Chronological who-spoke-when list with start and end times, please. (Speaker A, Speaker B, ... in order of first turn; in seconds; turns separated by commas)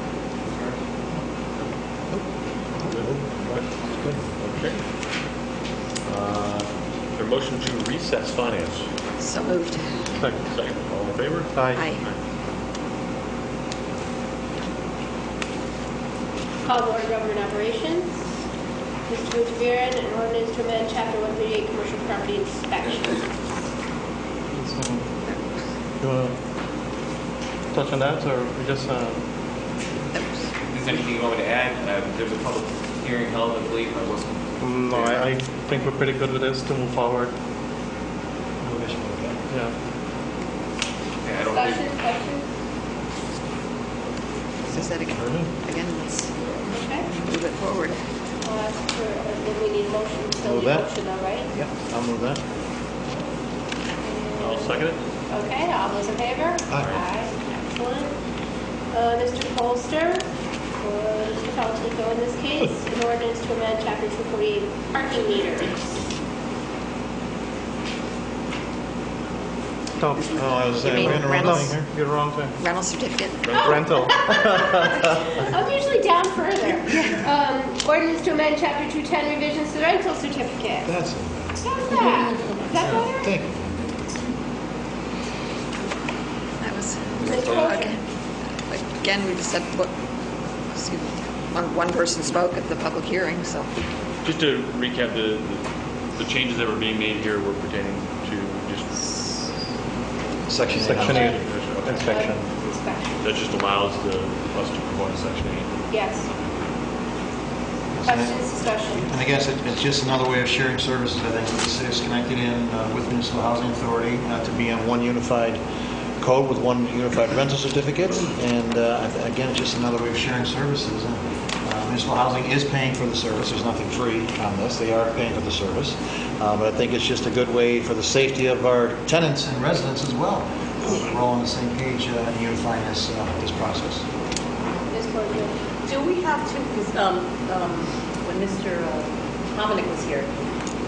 Speaker A: 0.5-0.8, Speaker B: 2.1-4.2, Speaker C: 2.9-3.7, Speaker C: 4.4-4.8, Speaker C: 6.1-8.9, Speaker D: 9.2-9.9, Speaker C: 10.5-12.2, Speaker D: 11.7-12.0, Speaker E: 16.6-18.2, Speaker E: 19.1-23.3, Speaker F: 27.8-29.2, Speaker A: 30.6-35.2, Speaker F: 34.6-37.3, Speaker B: 38.6-39.4, Speaker A: 41.2-41.9, Speaker E: 41.4-42.5, Speaker D: 44.7-46.3, Speaker E: 46.7-47.1, Speaker D: 47.2-48.0, Speaker E: 48.4-51.5, Speaker B: 50.4-50.9, Speaker B: 51.5-52.4, Speaker E: 54.0-58.2, Speaker C: 54.4-55.0, Speaker E: 58.9-65.9, Speaker B: 70.3-71.9, Speaker D: 70.8-71.7, Speaker F: 71.7-72.5, Speaker D: 72.6-73.6, Speaker E: 73.5-80.9, Speaker C: 73.6-74.0, Speaker F: 73.7-74.8, Speaker B: 80.8-83.9, Speaker E: 81.6-83.4, Speaker D: 86.6-88.0, Speaker A: 87.2-87.7, Speaker E: 87.2-88.0, Speaker D: 88.7-89.9, Speaker D: 90.7-93.7, Speaker C: 94.2-98.9, Speaker B: 100.5-101.4, Speaker C: 100.7-102.1, Speaker F: 100.8-101.3, Speaker E: 101.0-101.4, Speaker E: 102.0-103.4, Speaker C: 103.2-105.8, Speaker E: 105.9-106.3, Speaker C: 106.4-106.7, Speaker B: 107.9-115.6, Speaker E: 108.0-109.1, Speaker B: 116.2-134.1, Speaker E: 134.9-135.6, Speaker G: 135.8-140.5